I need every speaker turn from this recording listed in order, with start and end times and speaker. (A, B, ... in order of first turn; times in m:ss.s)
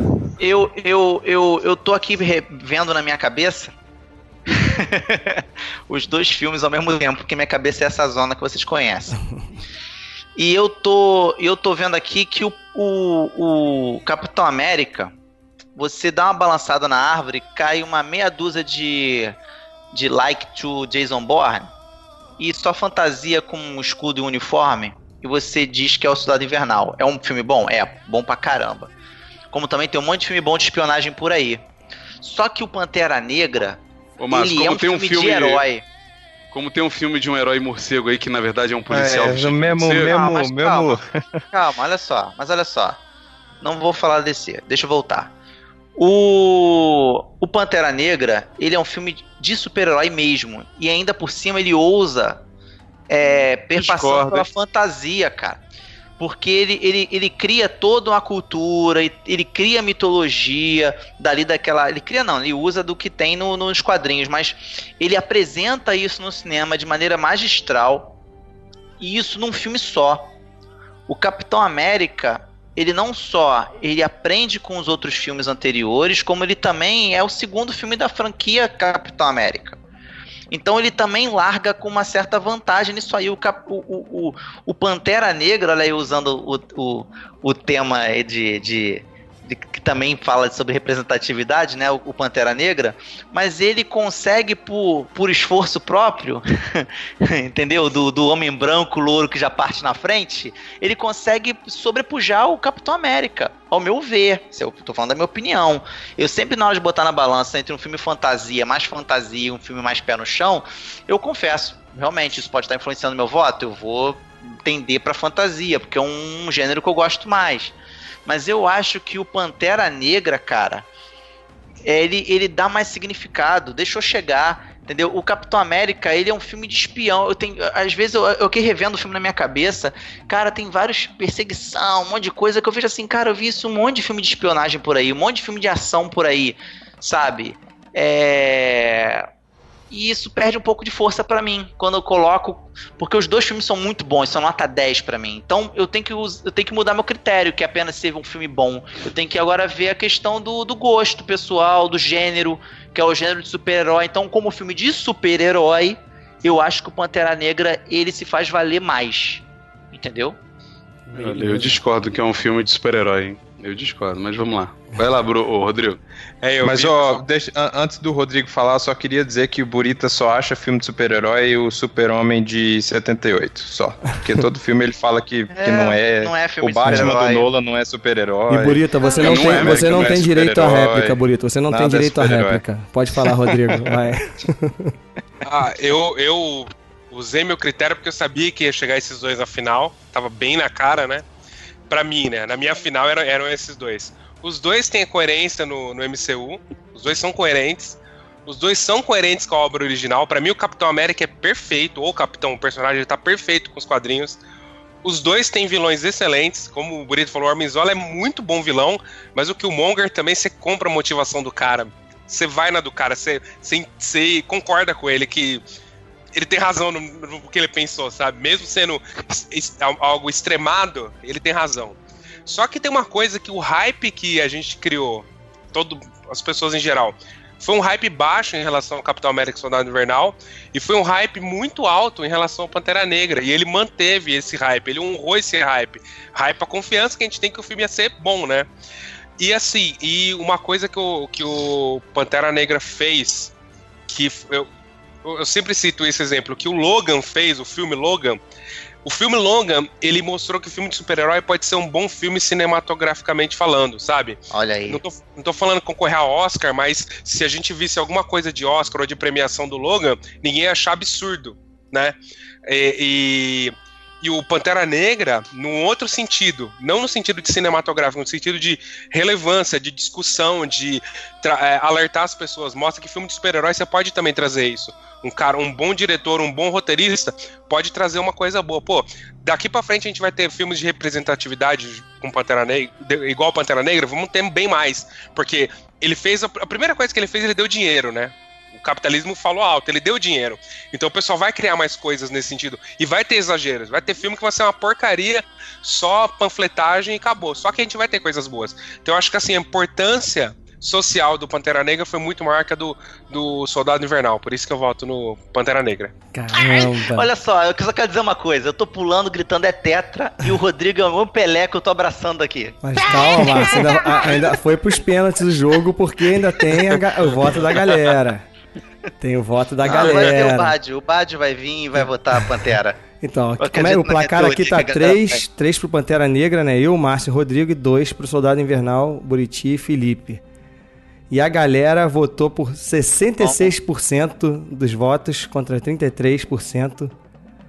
0:00.4-0:03.7 A
0:04.5-0:09.2 A
0:10.4-0:15.1 A
0:15.8-0:19.4 A
0:19.9-0:21.7 A
0:22.4-0:28.9 A
0:29.5-0:31.6 A
0:32.2-0:33.8 A
0:34.2-0:35.6 B
0:34.3-0:35.8 A
0:36.5-0:40.1 B
0:38.9-0:41.4 C
0:40.0-0:43.0 A
0:43.6-0:45.3 A
0:46.0-0:52.4 A
0:53.1-0:55.6 A
0:53.8-0:54.4 B
0:56.2-1:08.1 A
1:09.0-1:10.3 A
1:11.1-1:19.8 A
1:20.5-1:57.7 A
1:58.2-2:00.8 A
2:01.8-2:19.3 A
2:19.9-2:40.4 A
2:41.1-2:41.8 D
2:41.2-2:46.0 B
2:46.4-2:47.2 E
2:46.6-3:02.6 C
2:55.5-2:57.5 A
2:58.5-3:04.9 D
2:58.5-3:00.3 B
3:03.2-3:03.9 C
3:05.4-3:11.2 E
3:11.9-3:24.4 E
3:25.0-3:35.6 E
3:36.3-3:58.7 E
3:59.4-4:03.5 E
4:04.1-4:04.7 E
4:05.2-4:08.4 E
4:09.0-5:06.1 E
4:14.5-4:15.0 A
5:06.3-5:07.3 D
5:06.5-5:14.4 A
5:12.8-5:18.4 D
5:19.2-5:20.7 D
5:19.8-5:23.0 A
5:23.2-5:30.4 D
5:23.6-5:25.4 A
5:31.3-5:37.1 D
5:33.4-5:33.7 A